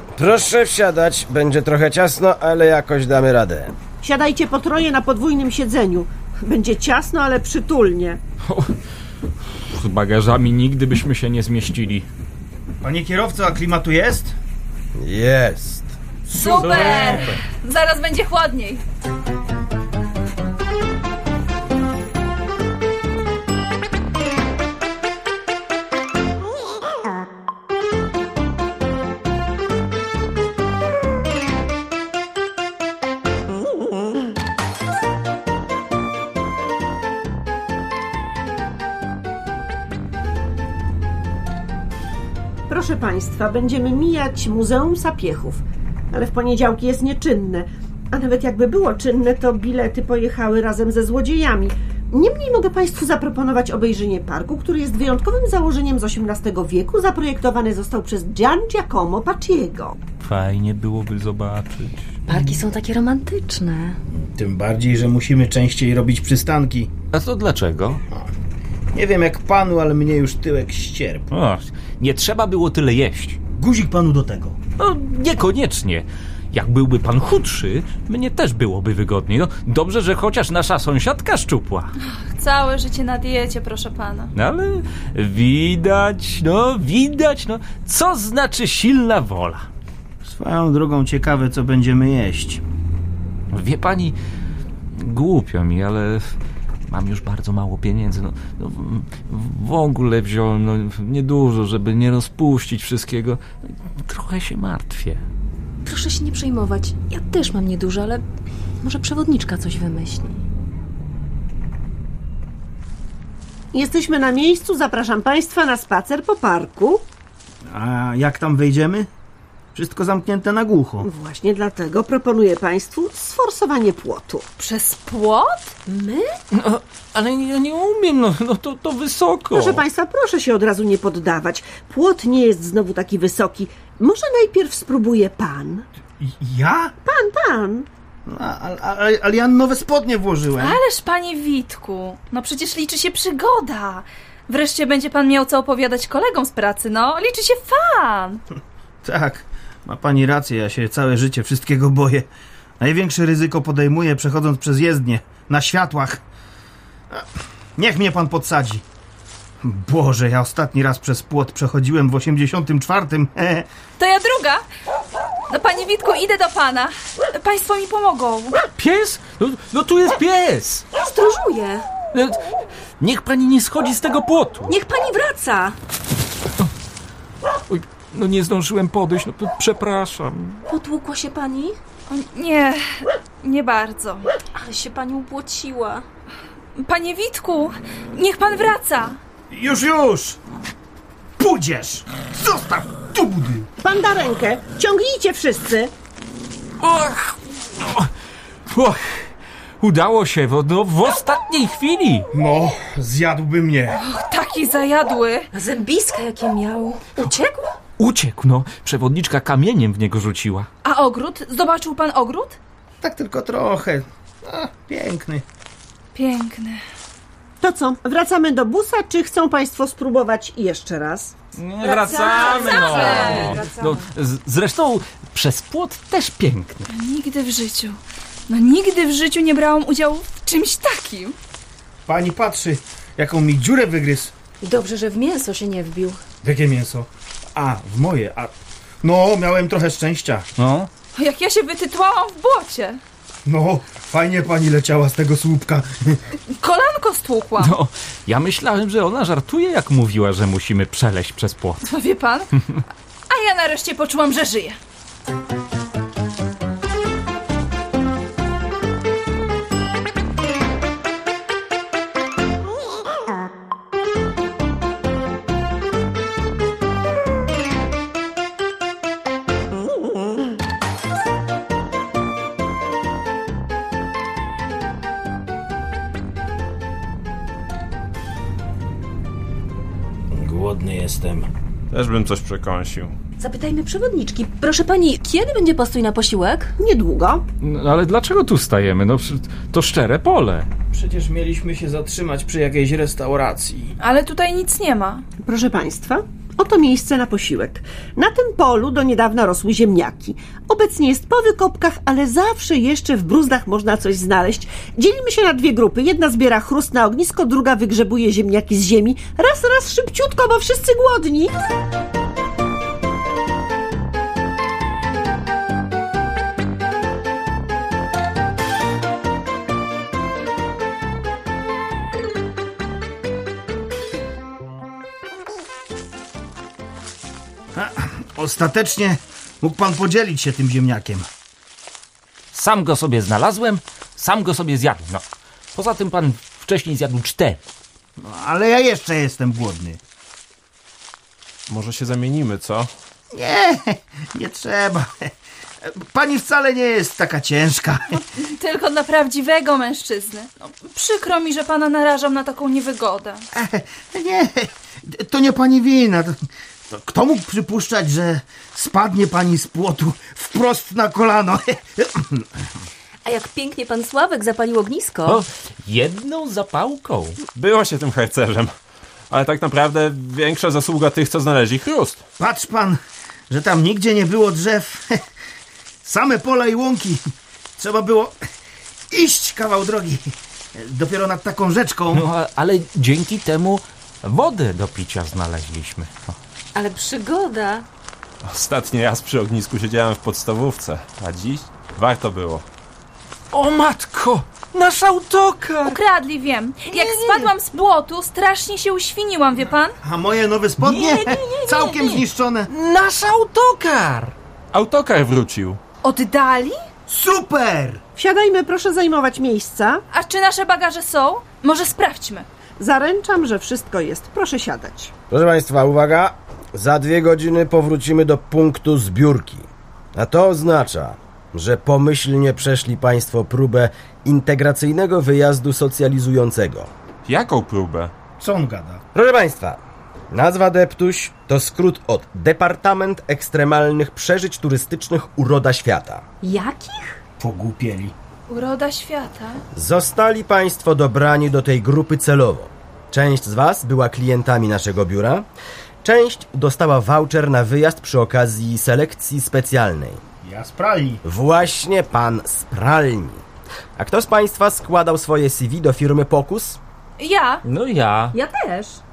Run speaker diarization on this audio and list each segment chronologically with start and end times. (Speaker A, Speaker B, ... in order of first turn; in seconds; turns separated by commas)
Speaker A: 0.1-3.7, Speaker B: 4.0-8.2, Speaker C: 8.4-8.7, Speaker C: 9.6-12.1, Speaker D: 12.8-14.3, Speaker A: 14.9-15.9, Speaker C: 16.3-17.4, Speaker E: 16.3-18.8, Speaker D: 16.5-17.1, Speaker B: 42.7-60.0, Speaker C: 60.2-62.5, Speaker F: 62.3-64.0, Speaker D: 64.1-66.9, Speaker C: 67.1-68.0, Speaker D: 68.9-71.2, Speaker C: 71.3-73.4, Speaker D: 73.5-74.6, Speaker C: 74.8-81.9, Speaker E: 82.0-84.3, Speaker C: 84.3-89.7, Speaker D: 90.2-92.6, Speaker C: 93.5-94.2, Speaker C: 94.9-96.3, Speaker C: 96.9-103.4, Speaker C: 104.0-105.2, Speaker F: 105.8-108.2, Speaker F: 108.8-110.4, Speaker B: 113.7-117.0, Speaker D: 117.7-119.1, Speaker D: 119.7-121.1, Speaker B: 121.0-124.5, Speaker E: 124.6-125.7, Speaker F: 125.9-126.4, Speaker C: 126.5-129.8, Speaker B: 129.5-135.8, Speaker D: 136.2-136.9, Speaker B: 137.0-137.9, Speaker D: 138.3-140.8, Speaker E: 140.6-148.4, Speaker D: 149.0-152.3, Speaker D: 152.8-156.2, Speaker D: 157.8-158.8, Speaker D: 159.6-163.7, Speaker E: 164.0-164.6, Speaker E: 165.5-168.6, Speaker C: 168.7-170.9, Speaker F: 171.0-171.9, Speaker C: 172.1-172.4, Speaker C: 173.0-174.7, Speaker F: 174.7-175.8, Speaker C: 177.7-180.6, Speaker F: 180.7-181.8, Speaker E: 182.1-184.3, Speaker F: 184.6-186.0, Speaker E: 186.8-189.2, Speaker D: 189.5-190.4, Speaker D: 191.4-193.7, Speaker B: 193.8-195.9, Speaker C: 196.8-198.1, Speaker C: 198.7-202.3, Speaker D: 202.3-204.0, Speaker E: 203.9-205.5, Speaker F: 205.5-207.7, Speaker C: 208.0-210.7, Speaker E: 210.8-212.6, Speaker D: 213.0-215.4, Speaker E: 216.1-216.8, Speaker B: 217.6-221.3, Speaker C: 221.5-226.9, Speaker F: 221.8-223.9, Speaker B: 222.3-222.9, Speaker E: 222.5-223.6, Speaker E: 226.9-228.0, Speaker E: 228.5-231.3, Speaker D: 232.1-234.3, Speaker F: 234.6-236.2, Speaker D: 236.4-240.4, Speaker C: 240.6-240.9, Speaker E: 241.1-243.0, Speaker D: 243.4-246.2, Speaker E: 246.5-247.7, Speaker C: 247.6-251.8, Speaker E: 251.8-252.6, Speaker E: 253.3-254.8, Speaker D: 280.3-281.5, Speaker G: 281.9-283.1, Speaker F: 283.4-286.7, Speaker B: 286.8-287.4, Speaker C: 287.6-290.7, Speaker D: 290.9-293.9, Speaker E: 294.0-295.2, Speaker B: 295.4-311.5, Speaker D: 327.7-331.3, Speaker C: 332.5-335.2, Speaker C: 335.7-337.6, Speaker D: 338.2-340.0, Speaker G: 341.7-342.9, Speaker D: 343.3-345.3, Speaker D: 345.8-348.1, Speaker E: 348.1-353.4, Speaker D: 353.5-356.4, Speaker D: 356.9-362.4, Speaker F: 363.2-365.4, Speaker C: 365.2-367.4, Speaker G: 367.5-368.7, Speaker G: 369.3-372.2, Speaker D: 372.4-373.0, Speaker D: 373.5-375.2, Speaker D: 376.0-377.2, Speaker D: 377.8-378.3, Speaker D: 379.1-382.3, Speaker C: 382.1-386.3, Speaker F: 386.7-387.9, Speaker G: 388.4-392.6, Speaker C: 393.5-396.0, Speaker E: 395.9-400.0, Speaker C: 396.9-397.5, Speaker D: 400.0-402.7, Speaker C: 400.8-402.1, Speaker F: 401.0-402.2, Speaker C: 402.7-404.3, Speaker G: 404.7-405.8, Speaker E: 406.0-406.8, Speaker D: 407.1-408.0, Speaker B: 408.1-410.0, Speaker E: 410.1-412.5, Speaker B: 412.8-415.1, Speaker A: 415.3-426.9, Speaker G: 427.3-428.1, Speaker D: 428.4-429.0, Speaker A: 429.1-429.8, Speaker A: 430.3-436.2, Speaker F: 436.4-437.2, Speaker D: 437.4-438.1, Speaker E: 438.5-439.6, Speaker A: 439.7-445.4, Speaker A: 446.0-450.2, Speaker D: 450.4-451.2, Speaker A: 451.2-453.4, Speaker A: 453.9-456.8, Speaker E: 457.2-457.6, Speaker C: 457.6-458.4, Speaker F: 458.3-459.0